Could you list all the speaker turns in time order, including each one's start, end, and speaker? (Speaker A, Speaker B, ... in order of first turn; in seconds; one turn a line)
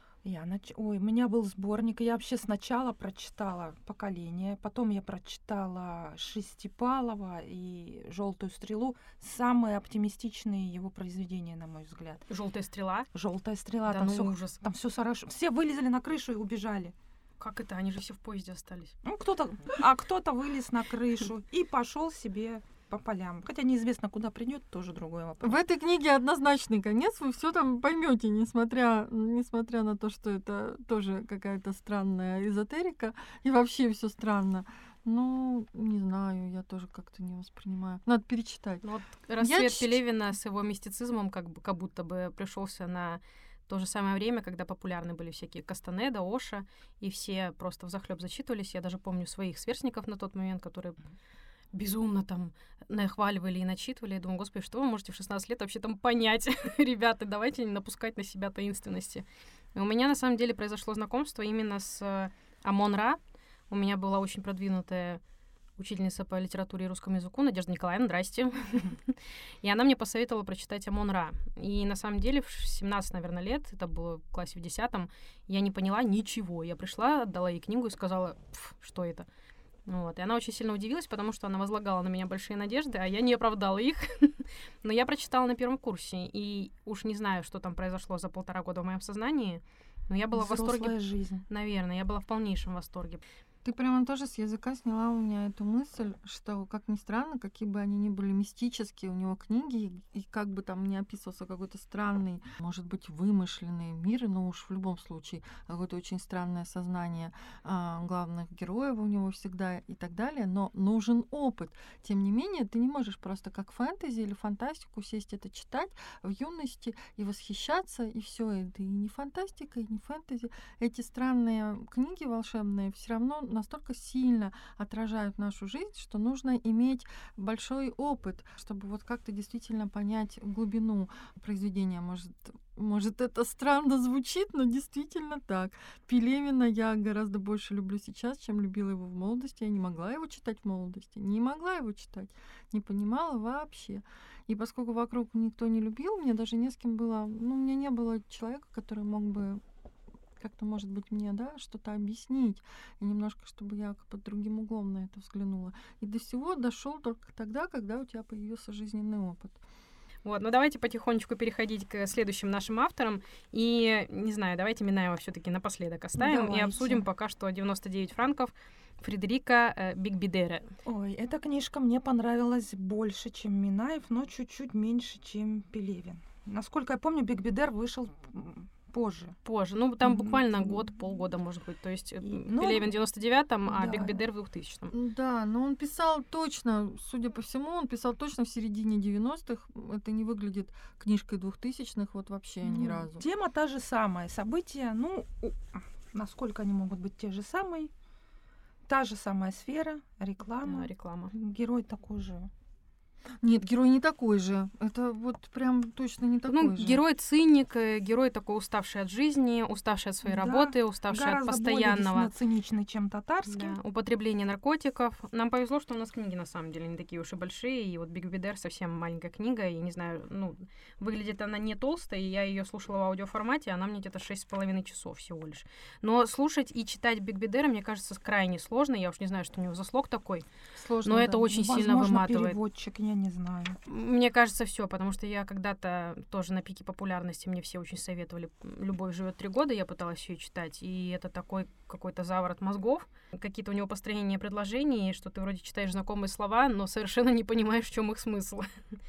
Speaker A: 0.2-12.2
Speaker B: 12.3-13.1
Speaker A: 13.1-16.9
Speaker B: 13.8-14.6
Speaker B: 17.4-18.9
Speaker A: 19.0-25.6
Speaker C: 25.4-38.8
Speaker B: 38.8-51.0
Speaker C: 39.4-40.0
Speaker B: 51.7-65.2
Speaker B: 65.8-79.3
Speaker B: 79.8-91.0
Speaker A: 90.3-91.4
Speaker B: 91.5-93.2
Speaker C: 93.6-149.6
Speaker C: 150.4-159.6
Speaker B: 160.2-170.7
Speaker A: 166.2-167.0
Speaker A: 170.8-179.3
Speaker B: 179.4-184.9
Speaker A: 180.0-180.9
Speaker A: 182.2-182.9
Speaker A: 183.7-184.2
Speaker C: 184.9-193.2
Speaker A: 192.6-197.9
Speaker A: 198.9-202.5
Speaker B: 200.6-201.3
Speaker C: 203.4-207.0
Speaker B: 206.5-212.3
Speaker A: 210.2-213.8
Speaker B: 213.5-230.4
Speaker C: 230.8-231.4
Speaker B: 231.0-232.6
Speaker A: 231.4-233.8
Speaker B: 233.9-248.7